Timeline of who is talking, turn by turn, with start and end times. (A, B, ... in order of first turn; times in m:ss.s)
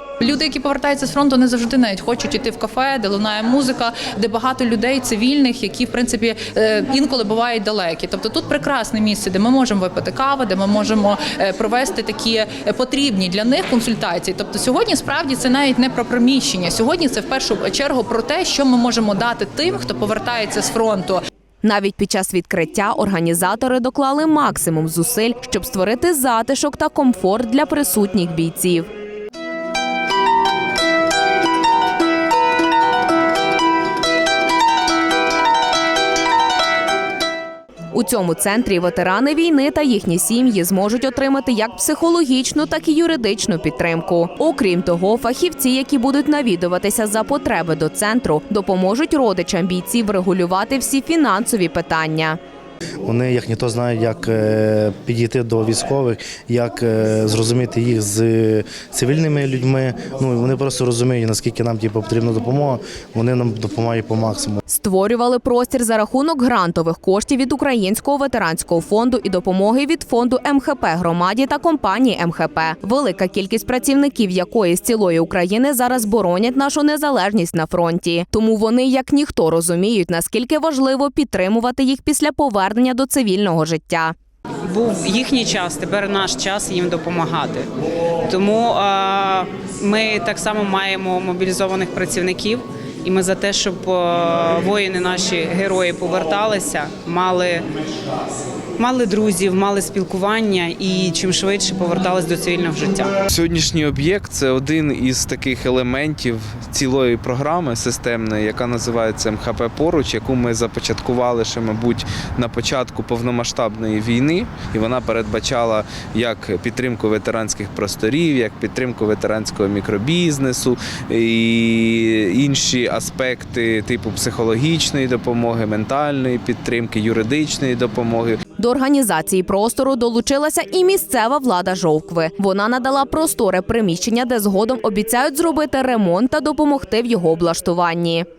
0:00.2-0:21.2 A
0:21.6-0:28.9 B
0:37.9-0:52.4 B
0:53.0-1:04.6 C
1:04.7-1:24.1 B
1:24.6-1:27.7 D
1:28.2-1:37.7 D
1:38.8-1:43.1 D
1:43.3-2:08.4 E
2:08.6-2:18.3 B